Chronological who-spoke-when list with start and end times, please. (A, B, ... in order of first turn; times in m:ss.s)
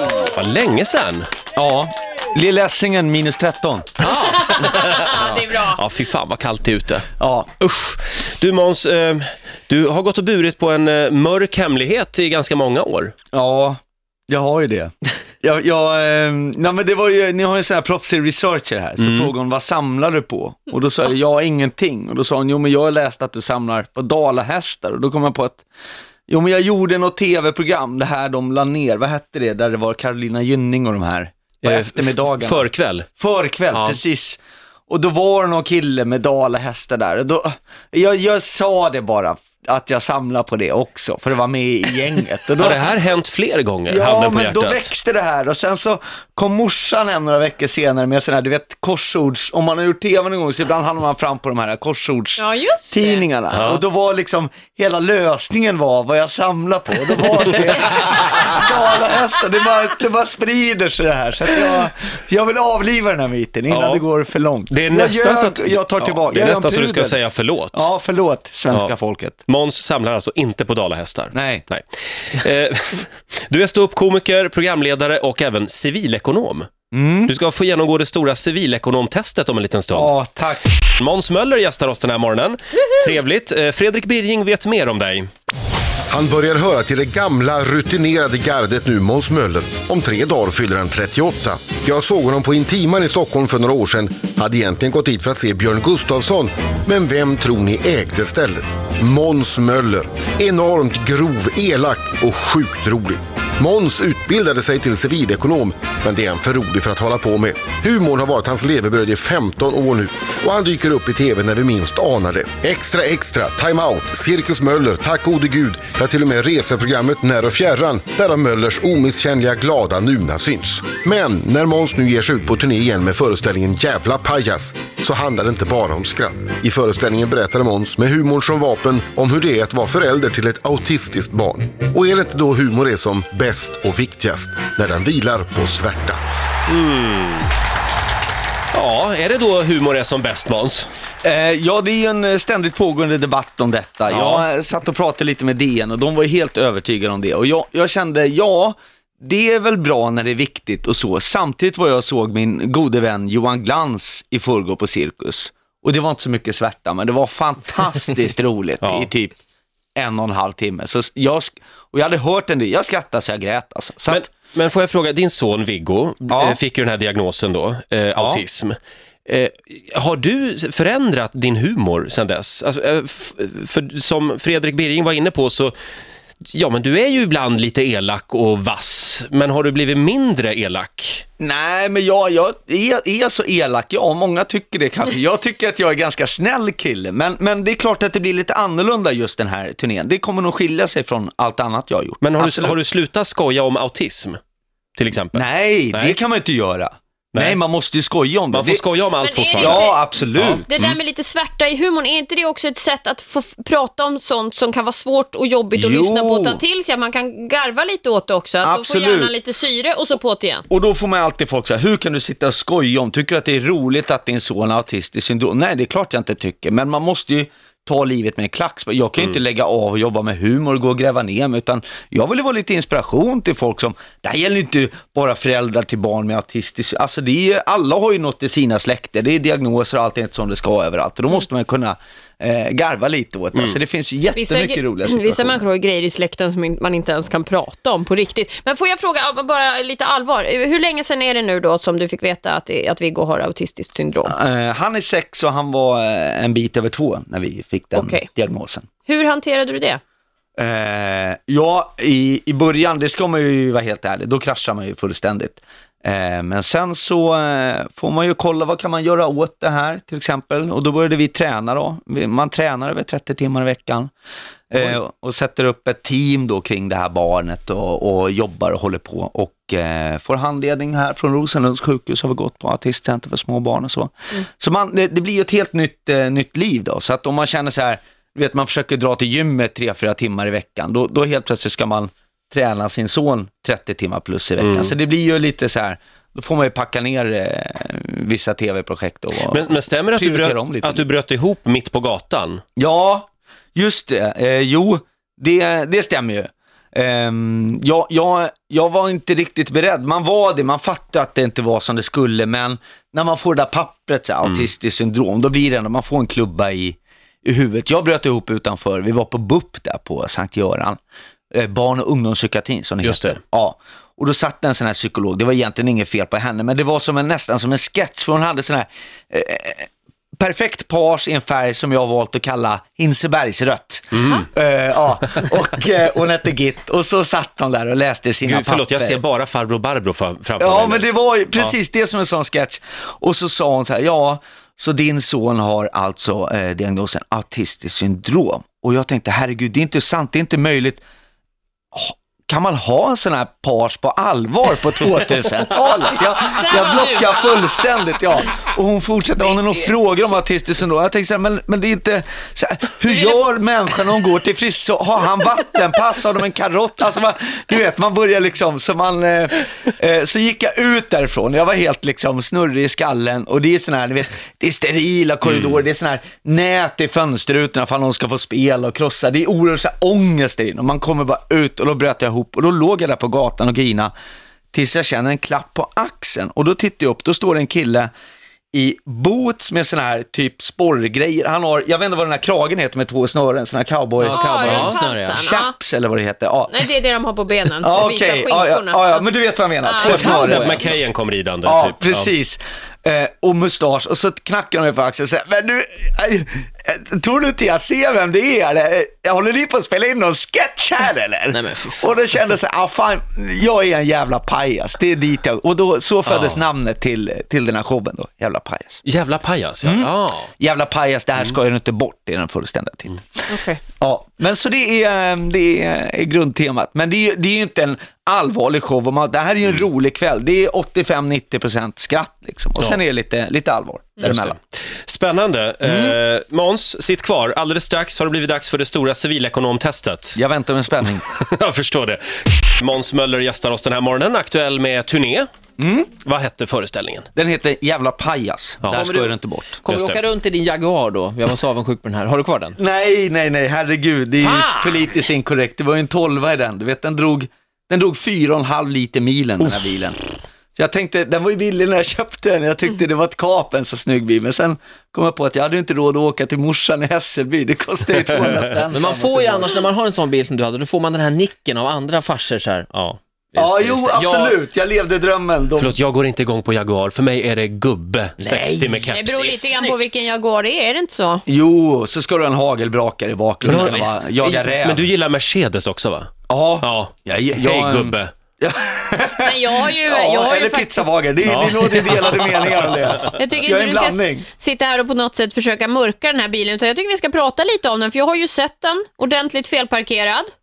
0:00.2-0:01.3 A
0:01.6-0:04.0 B
0:04.0-0:07.1 A
0:04.2-0:05.8 C
0:07.2-0:07.5 B
0:07.6-0:13.1 A
0:13.3-0:25.7 B
0:19.0-0:19.3 A
0:26.3-0:42.9 B
0:31.6-0:33.1 A
0:33.7-0:34.0 A
0:42.6-0:44.9 A
0:43.9-1:07.2 B
0:52.4-0:53.2 C
0:53.5-0:53.8 A
1:03.7-1:04.0 A
1:04.7-1:07.9 A
1:07.7-1:09.4 B
1:09.5-1:16.7 A
1:11.3-1:11.6 B
1:16.9-1:17.3 B
1:17.3-1:20.1 A
1:19.9-1:20.7 B
1:20.8-1:25.3 A
1:26.1-2:16.2 D
2:16.7-2:17.5 A
2:18.7-2:20.9 A
2:21.2-2:39.4 B
2:24.1-2:24.4 A
2:38.8-2:39.1 A
2:40.0-2:44.3 B
2:44.1-2:55.8 A
2:46.3-2:46.6 B
2:48.2-2:48.4 B
2:56.5-3:01.2 A
3:01.4-3:12.8 B
3:12.2-3:14.4 A
3:15.0-3:16.2 A
3:15.3-3:18.8 B
3:17.3-3:17.6 A
3:18.5-3:21.0 A
3:19.2-3:20.1 C
3:19.6-3:20.7 B
3:20.6-3:30.6 C
3:25.8-3:26.6 B
3:28.6-3:29.3 B
3:30.7-3:55.6 B
3:53.6-3:53.8 A
3:54.4-4:04.3 C
4:04.2-4:08.9 B
4:07.9-4:08.3 C
4:09.0-4:10.0 C
4:10.6-4:24.1 B
4:24.7-4:51.1 B
4:44.6-4:44.9 A
4:49.5-4:52.6 A
4:52.8-5:11.0 B
5:11.5-5:29.2 B
5:13.0-5:13.4 A
5:24.1-5:24.4 A
5:28.4-5:31.7 A
5:30.6-5:41.0 B
5:41.9-6:14.1 B
5:46.2-5:47.8 C
5:53.1-5:53.4 C
6:05.4-6:05.8 A
6:14.7-6:18.1 B
6:18.7-6:26.9 B
6:24.2-6:25.5 E
6:24.2-6:25.8 C
6:24.6-6:25.0 A
6:26.7-6:29.3 C
6:27.8-6:30.9 B
6:29.8-6:30.8 C
6:30.0-6:30.9 E
6:30.0-6:32.3 A
6:31.6-6:49.0 B
6:41.5-6:42.2 E
6:46.3-6:46.6 A
6:49.0-6:50.5 A
6:49.8-7:04.6 B
6:53.5-6:53.8 C
7:04.2-7:10.4 A
7:05.8-7:06.2 B
7:10.4-7:11.2 B
7:11.3-7:15.5 A
7:15.8-7:16.1 B
7:16.2-7:17.3 A
7:17.4-7:19.8 B
7:18.9-7:22.8 E
7:19.9-7:20.2 A
7:22.8-7:30.2 B
7:24.4-7:25.1 E
7:30.8-7:39.8 B
7:38.9-7:44.6 E
7:43.6-7:45.9 B
7:45.8-7:49.5 A
7:48.4-7:50.3 E
7:49.1-7:51.4 C
7:51.5-7:55.1 B
7:53.6-7:58.3 A
7:53.7-7:54.1 E
7:56.5-8:04.5 B
7:59.4-8:01.2 C
8:01.4-8:03.3 A
8:03.3-8:10.5 C